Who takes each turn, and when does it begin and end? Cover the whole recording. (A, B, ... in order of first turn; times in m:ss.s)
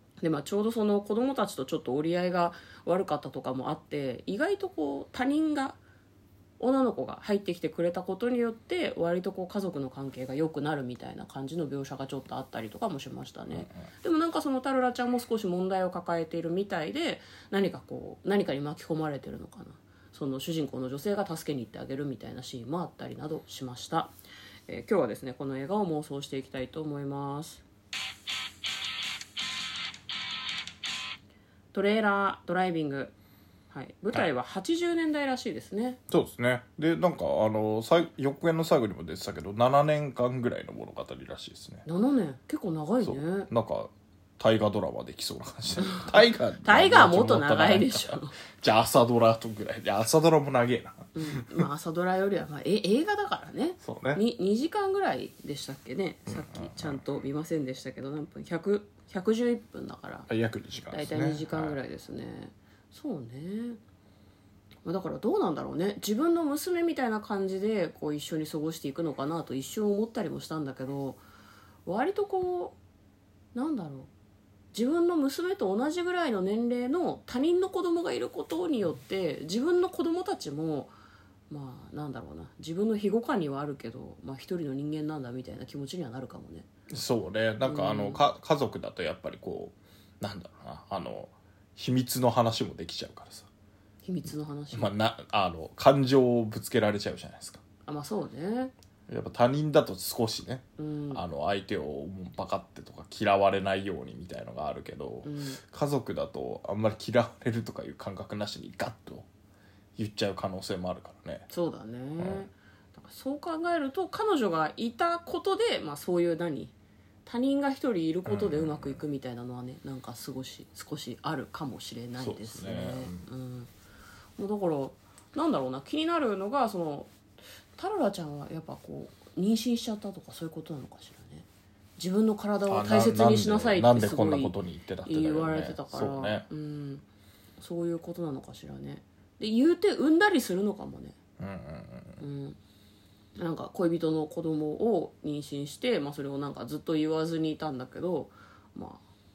0:00.2-0:05.8 A
0:06.6-0:24.1 A
0:24.7-0:27.6 A
0:31.7-0:33.2 A
0:33.7-0:36.0 A
0:36.1-0:41.8 B
0:41.9-0:43.5 A
0:43.0-0:51.6 B
0:46.6-0:48.3 A
0:51.1-1:00.3 A
0:53.8-0:54.2 B
0:56.3-0:57.0 B
1:00.3-1:01.8 B
1:00.9-1:03.8 A
1:04.8-1:11.2 A
1:11.9-1:12.8 A
1:13.5-1:14.1 A
1:14.7-1:21.0 A
1:21.5-1:26.7 A
1:26.9-1:33.5 B
1:27.6-1:28.2 A
1:34.0-1:34.9 A
1:34.7-1:37.6 B
1:37.9-1:38.7 A
1:39.1-1:49.3 B
1:40.8-1:41.2 A
1:45.2-1:45.6 A
1:50.0-1:51.5 B
1:51.5-1:56.7 A
1:52.2-1:52.5 B
1:57.2-2:03.7 A
1:58.2-1:59.0 B
2:02.2-2:03.3 B
2:04.4-2:07.1 A
2:07.8-2:11.5 A
2:12.0-2:14.6 A
2:12.7-2:16.5 B
2:15.1-2:17.0 A
2:17.6-2:21.2 A
2:21.4-2:22.2 B
2:22.2-2:22.6 A
2:23.4-2:29.0 A